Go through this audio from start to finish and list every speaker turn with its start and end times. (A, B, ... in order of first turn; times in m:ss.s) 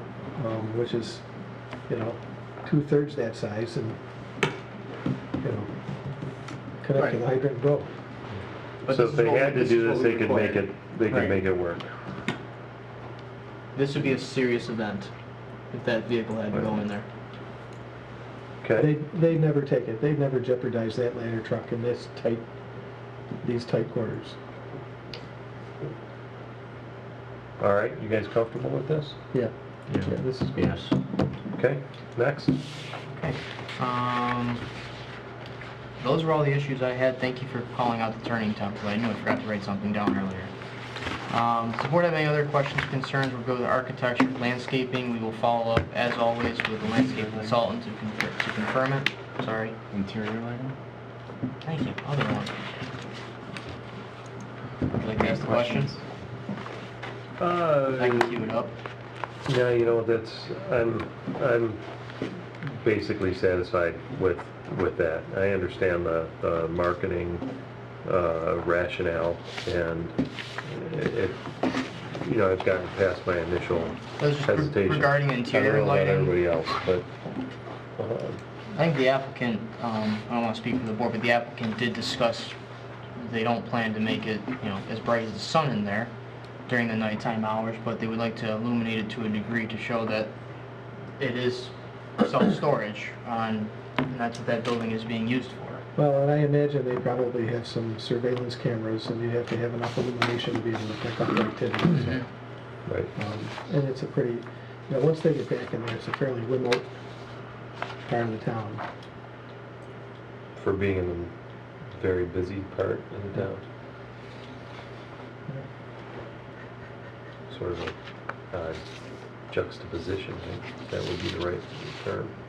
0:00.3-0:01.2 A
0:01.9-0:04.0 A
0:05.4-0:05.7 A
0:06.8-0:07.9 A
0:06.9-0:07.2 B
0:08.8-0:10.7 B
0:08.9-0:11.9 C
0:13.8-0:15.1 B
0:15.7-0:17.1 B
0:18.6-0:18.9 C
0:18.8-0:22.4 A
0:23.4-0:24.4 A
0:27.6-0:29.2 C
0:29.3-0:30.4 A
0:30.2-0:30.9 B
0:31.5-0:32.5 C
0:33.1-0:34.6 B
0:36.0-0:40.5 B
0:41.3-0:49.8 B
0:47.0-0:47.5 D
0:49.9-0:50.8 D
0:51.6-0:52.5 B
0:54.9-0:55.9 B
0:55.3-0:56.0 D
0:57.4-0:58.4 C
0:57.9-0:58.7 B
0:59.4-1:01.8 C
1:02.6-1:07.5 C
1:08.0-1:17.1 C
1:14.2-1:16.4 B
1:18.0-1:18.4 C
1:18.7-1:22.6 B
1:23.2-1:26.1 B
1:26.7-1:30.3 B
1:31.2-1:35.8 B
1:36.0-1:42.2 A
1:42.9-1:43.1 C
1:43.1-1:46.8 A
1:48.1-1:48.8 A
1:50.6-1:51.3 C
1:51.9-1:53.6 C
1:57.5-1:57.9 C
1:58.5-1:58.8 C
1:59.5-2:02.3 C